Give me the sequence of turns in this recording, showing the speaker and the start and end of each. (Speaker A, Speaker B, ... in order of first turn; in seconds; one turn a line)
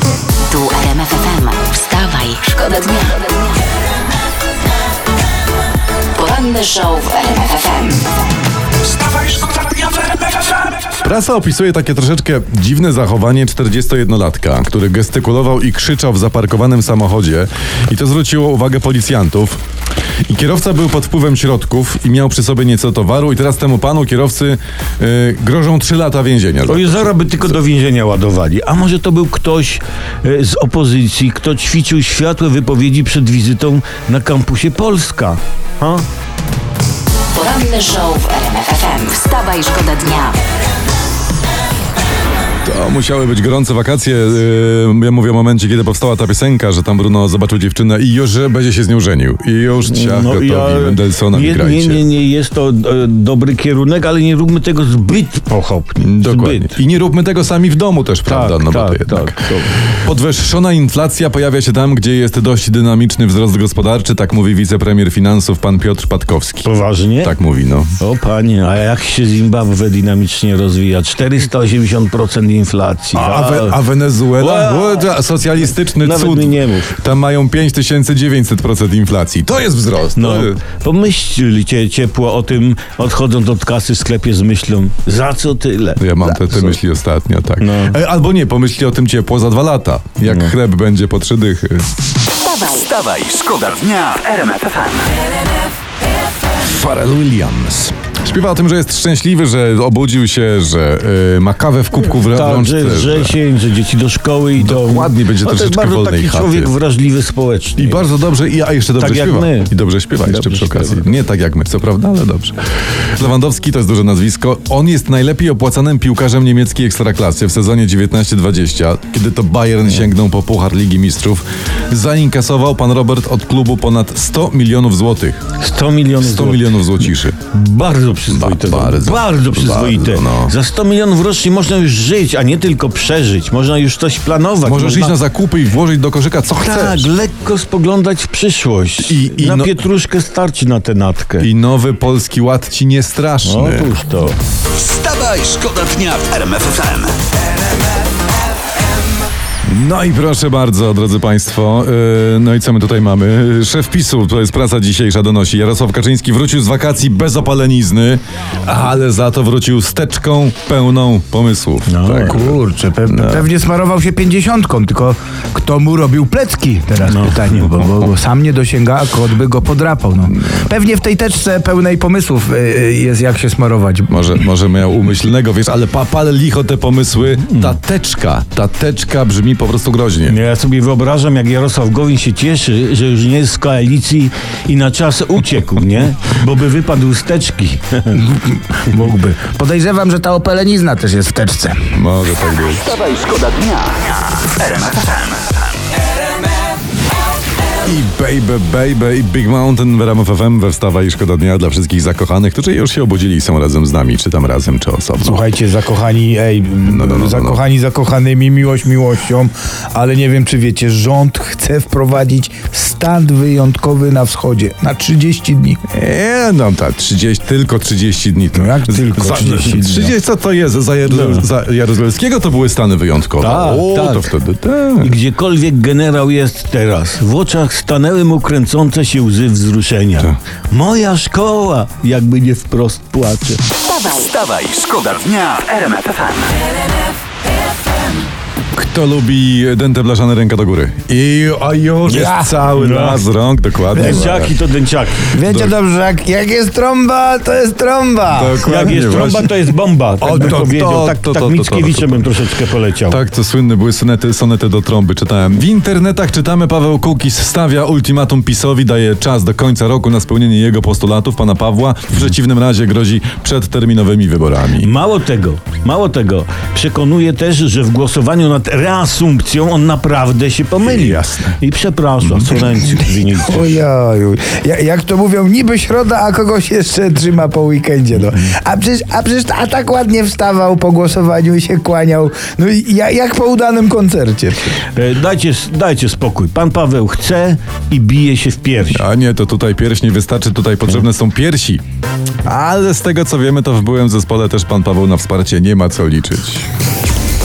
Speaker A: 0.5-3.5
Speaker A: 6.1-8.1
Speaker A: 9.0-10.5
Speaker B: 11.0-19.6
Speaker B: 20.3-27.6
Speaker C: 26.6-36.0
Speaker A: 37.3-40.4
Speaker B: 42.6-52.0
Speaker C: 49.9-56.8
Speaker B: 56.0-66.7
Speaker C: 58.2-59.9
Speaker C: 66.6-67.3
Speaker B: 67.2-68.0
Speaker C: 68.0-73.8
Speaker B: 73.1-80.6
Speaker C: 74.3-76.9
Speaker C: 80.1-86.8
Speaker B: 86.0-91.9
Speaker C: 87.6-88.0
Speaker C: 90.2-90.5
Speaker A: 92.4-92.9
Speaker D: 92.8-95.1
Speaker B: 96.6-103.3
Speaker C: 102.0-108.0
Speaker B: 104.5-106.7
Speaker B: 107.8-125.4
Speaker C: 109.0-111.0
Speaker C: 125.6-135.2
Speaker B: 126.2-127.4
Speaker B: 128.3-130.5
Speaker B: 134.6-137.1
Speaker C: 136.6-141.5
Speaker B: 139.1-139.8
Speaker B: 141.4-143.9
Speaker C: 143.4-144.3
Speaker D: 144.8-147.2
Speaker A: 144.8-145.8
Speaker B: 149.6-163.5
Speaker C: 161.9-162.4
Speaker E: 162.3-174.2
Speaker C: 167.0-167.6
Speaker B: 170.3-170.7
Speaker B: 174.1-180.4
Speaker C: 177.5-177.8
Speaker C: 180.3-188.2
Speaker E: 188.1-191.9
Speaker B: 191.9-193.0
Speaker D: 192.9-195.4
Speaker B: 197.8-205.4
Speaker E: 205.2-215.8
Speaker B: 206.8-207.6
Speaker B: 215.9-225.2
Speaker E: 218.5-220.1
Speaker C: 221.1-221.5
Speaker C: 223.4-224.3
Speaker C: 225.0-233.6
Speaker A: 233.8-234.3
Speaker D: 234.2-236.5
Speaker B: 238.7-244.6
Speaker C: 242.1-243.2
Speaker E: 242.1-242.7
Speaker C: 243.9-245.3
Speaker E: 243.9-244.3
Speaker E: 245.3-248.9
Speaker B: 245.4-245.8
Speaker B: 248.3-249.5
Speaker C: 248.6-253.2
Speaker B: 250.2-252.3
Speaker B: 253.0-264.9
Speaker C: 264.8-273.8
Speaker B: 270.8-271.6
Speaker E: 273.3-284.8
Speaker C: 284.9-289.0
Speaker B: 288.9-291.8
Speaker B: 292.4-296.7